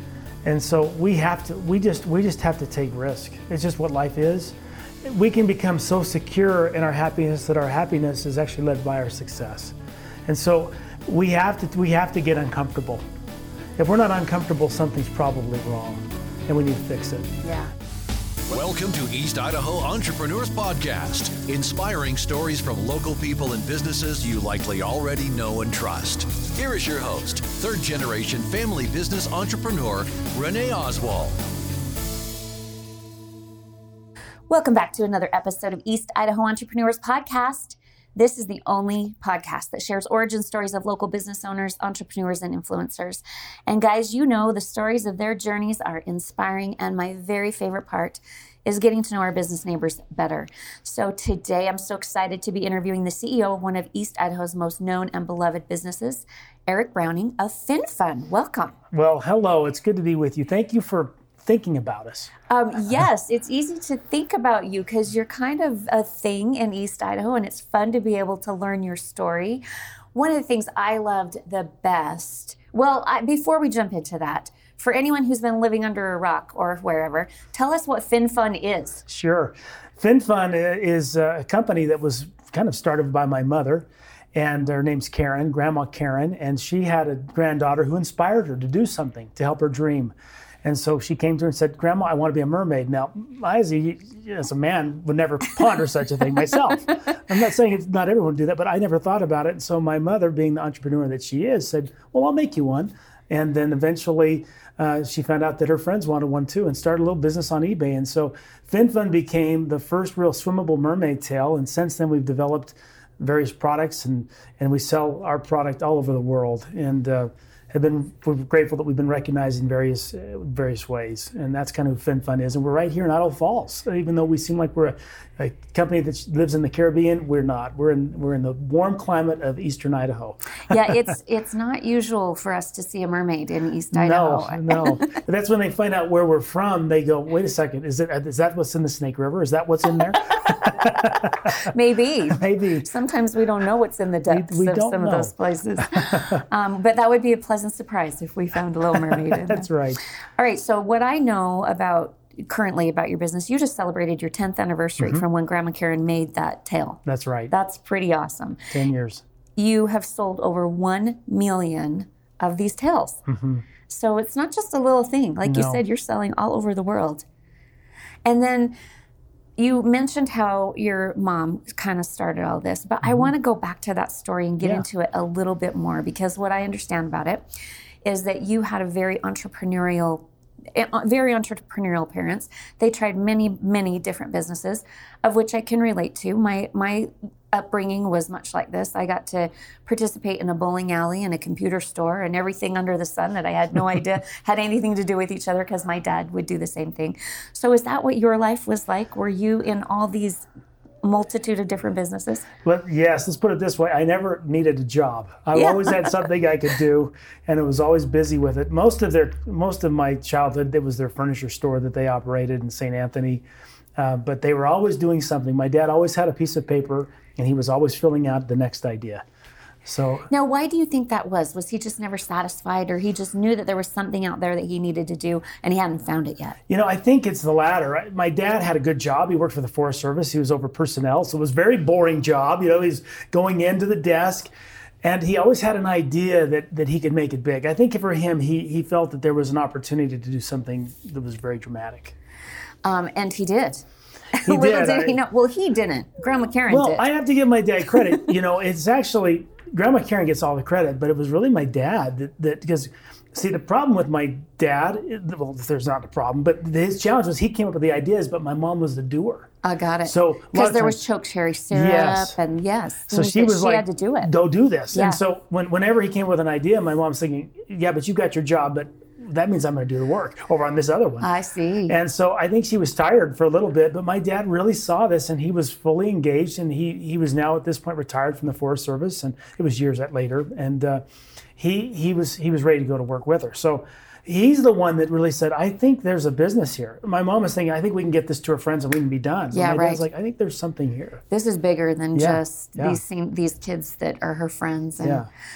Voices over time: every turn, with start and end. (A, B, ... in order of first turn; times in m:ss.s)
0:00.4-0:13.0 A
0:13.8-0:17.3 A
0:17.4-0:17.7 B
0:18.5-0:31.4 C
0:34.5-0:58.8 B
0:58.9-1:02.3 A
1:02.5-1:19.0 B
1:19.0-2:10.9 A
2:10.7-2:15.0 B
2:13.9-2:21.7 A
2:20.5-2:38.6 B
2:22.3-2:22.9 A
2:24.3-2:26.4 A
2:28.9-2:30.0 A
2:35.0-2:35.2 A
2:37.0-2:37.5 A
2:38.7-2:39.2 A
2:39.6-2:43.2 B
2:43.3-2:43.6 A
2:43.9-2:47.2 B
2:45.4-2:45.8 A
2:48.2-2:48.7 B
2:49.6-2:57.4 B
2:53.0-2:53.3 A
2:58.0-3:20.4 B
3:21.0-3:22.4 B
3:22.6-3:33.4 A
3:25.5-3:26.2 B
3:34.0-3:39.2 A
3:39.8-3:40.3 A
3:40.3-3:46.6 B
3:46.7-3:54.5 A
3:55.0-4:02.2 A
4:02.8-4:03.8 B
4:04.4-4:07.0 B
4:04.4-4:05.2 A
4:06.7-4:19.5 A
4:19.6-4:24.3 B
4:20.0-4:21.0 A
4:21.7-4:22.4 A
4:23.1-4:31.3 A
4:24.9-4:25.2 B
4:31.2-4:31.9 B
4:31.9-4:41.0 A
4:41.6-4:51.2 A
4:49.5-4:50.0 B
4:51.3-4:55.2 B
4:52.1-4:53.0 A
4:55.0-4:55.3 A